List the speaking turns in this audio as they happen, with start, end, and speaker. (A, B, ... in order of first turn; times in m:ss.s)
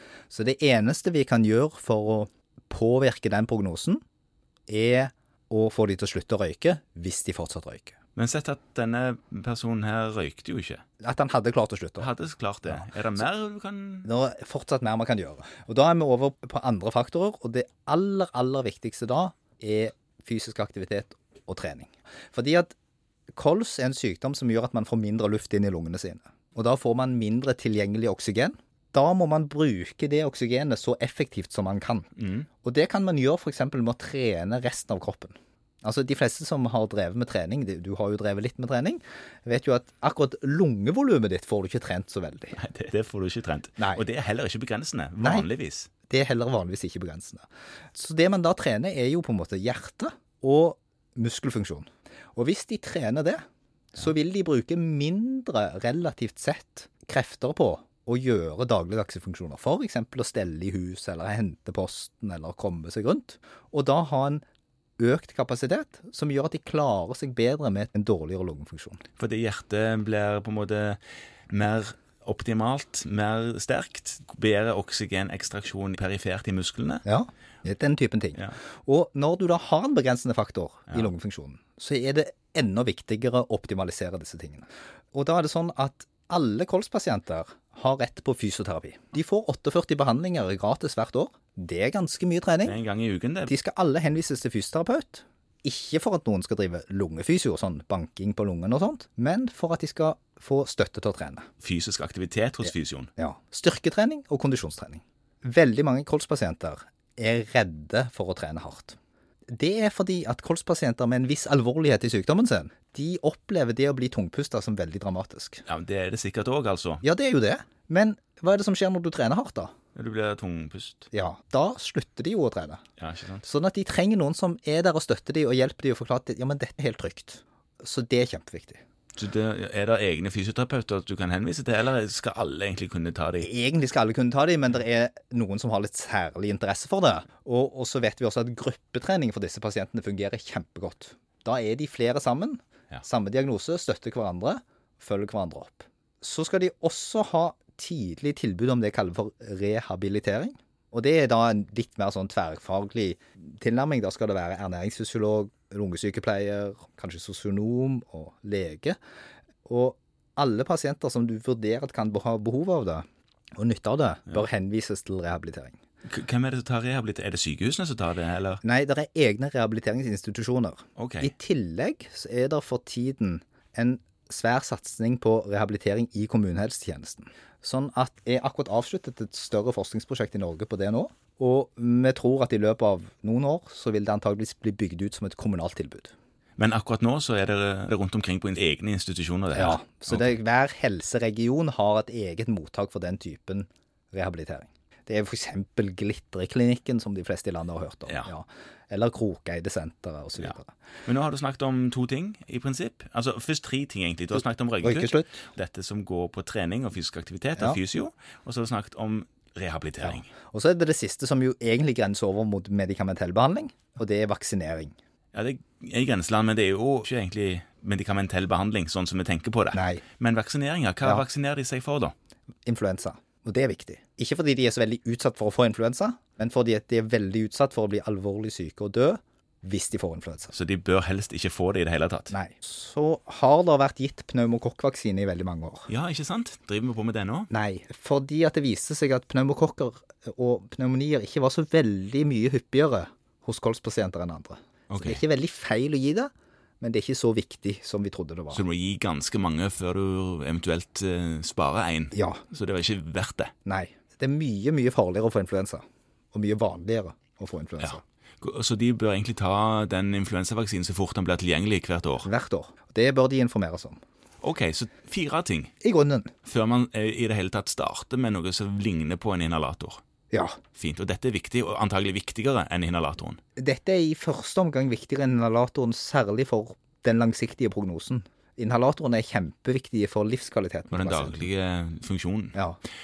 0:00.3-0:04.0 A
0:04.7-0:08.0 A
0:08.2-0:10.8 B
0:11.0-0:12.1 A
0:12.0-0:14.1 B
0:12.7-0:13.0 A
0:14.0-0:22.8 A
0:23.3-0:32.1 A
0:32.2-0:32.5 B
0:32.6-0:42.6 A
0:42.5-0:45.9 B
0:43.8-0:44.0 A
0:45.2-0:45.5 A
0:46.1-1:04.4 A
1:05.0-1:09.0 A
1:09.2-1:17.0 B
1:17.0-1:32.8 A
1:32.6-1:33.5 B
1:33.5-1:41.5 A
1:41.6-1:43.1 B
1:43.2-1:49.0 A
1:49.5-1:55.6 A
1:55.7-1:57.0 B
1:57.0-1:59.7 A
2:00.0-2:01.1 B
2:01.1-2:02.8 A
2:03.0-2:03.5 B
2:03.4-2:08.8 A
2:09.2-2:13.5 B
2:13.4-2:39.0 A
2:39.6-2:43.0 A
2:43.6-2:45.8 A
2:46.0-2:48.6 B
2:48.6-3:06.1 A
2:51.0-2:51.3 B
3:06.6-3:10.3 B
3:09.5-3:20.7 A
3:20.4-3:30.3 B
3:24.8-3:25.4 A
3:30.0-3:35.0 A
3:35.3-3:42.1 B
3:39.7-3:40.0 A
3:42.6-3:50.5 A
3:50.5-3:52.4 B
3:52.3-3:55.9 A
3:55.9-3:57.5 B
3:57.5-4:08.6 A
4:04.9-4:05.2 B
4:08.5-4:13.5 B
4:12.1-4:12.4 A
4:13.6-4:18.0 A
4:17.8-4:22.3 B
4:22.2-4:24.0 A
4:24.4-4:25.7 B
4:25.8-4:26.3 A
4:26.4-4:30.0 B
4:30.3-4:30.6 A
4:30.8-4:33.4 B
4:33.6-4:41.5 A
4:40.9-4:42.6 B
4:42.5-4:42.8 A